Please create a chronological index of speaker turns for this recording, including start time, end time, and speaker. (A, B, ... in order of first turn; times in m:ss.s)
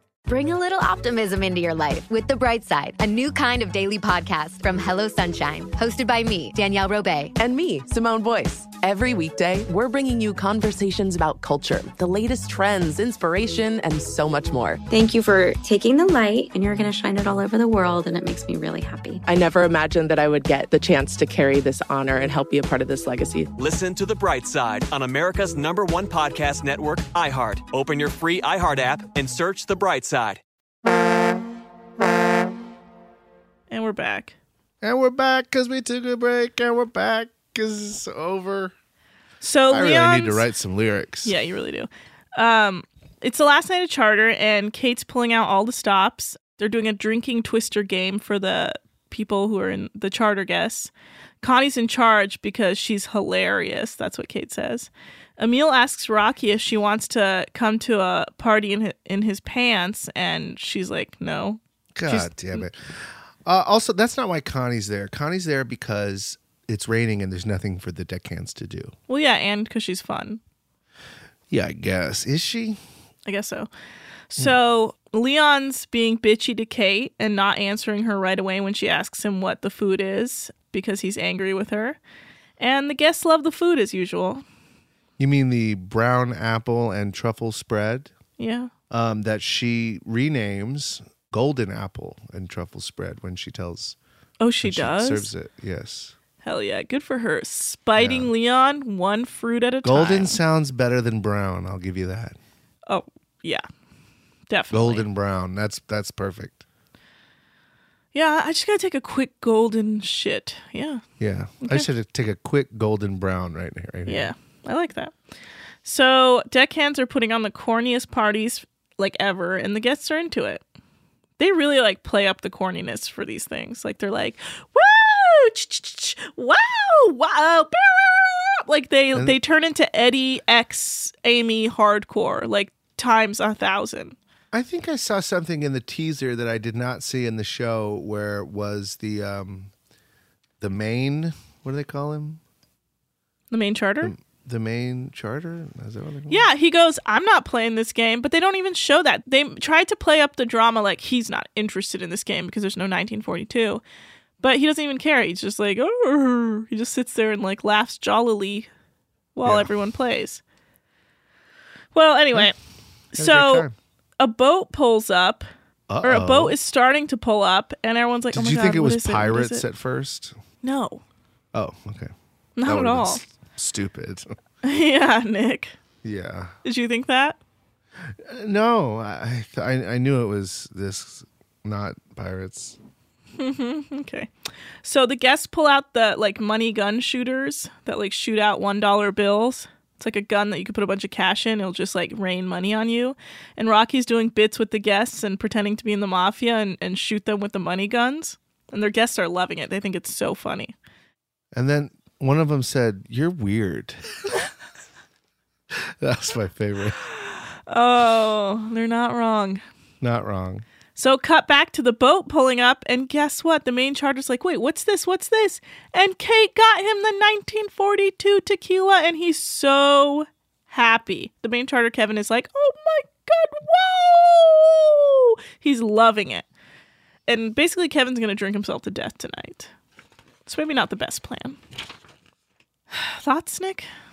0:00.3-0:07.3 A
0:07.4-0:14.8 B
0:14.9-0:19.2 C
0:19.2-0:23.5 B
0:23.6-0:30.4 D
0:33.7-0:34.4 E
0:34.8-0:38.7 F
0:39.4-0:40.4 E
0:39.7-0:41.3 F
0:41.2-0:50.9 E
0:51.4-1:02.7 E
1:02.0-1:09.0 F
1:09.1-1:10.4 E
1:11.5-1:12.8 F
1:13.3-1:13.7 E
1:14.3-1:22.0 E
1:22.6-1:24.4 E
1:25.2-1:28.1 F
1:28.4-1:28.7 E
1:28.9-1:34.0 F
1:34.4-1:35.3 E
1:34.6-1:36.2 F
1:36.4-1:40.4 E
1:38.0-1:38.3 F
1:39.8-1:42.4 F
1:42.9-1:43.6 E
1:44.5-1:45.1 E
1:44.7-1:46.6 F
1:48.1-1:51.0 E
1:51.2-1:54.3 F
1:51.6-1:51.9 E
1:54.1-1:55.2 E
1:55.8-2:00.6 E
2:01.4-2:14.2 E
2:09.1-2:09.4 F
2:14.5-2:19.7 F
2:20.6-2:22.4 F
2:23.5-2:24.1 E
2:24.0-2:26.5 F
2:26.3-2:33.8 E
2:34.4-2:38.7 E
2:39.4-2:40.4 E
2:39.4-2:39.7 F
2:41.9-2:42.6 E
2:43.1-2:43.7 E
2:43.2-2:43.7 F
2:44.2-2:45.5 E
2:45.9-2:46.6 F
2:46.0-2:49.7 E
2:48.3-2:50.4 F
2:50.6-2:51.0 E
2:51.5-2:52.1 F
2:52.6-2:53.2 E
2:52.6-2:54.3 F
2:54.6-2:55.7 E
2:56.0-2:56.5 F
2:56.6-2:57.4 E
2:58.2-3:02.8 F
3:03.4-3:04.3 E
3:04.8-3:20.8 E
3:21.5-3:24.0 F
3:25.8-3:27.0 F
3:27.7-3:29.6 E
3:30.0-3:30.6 F
3:31.0-3:46.5 E
3:47.3-3:49.7 E
3:50.5-3:51.6 E
3:52.9-3:53.9 E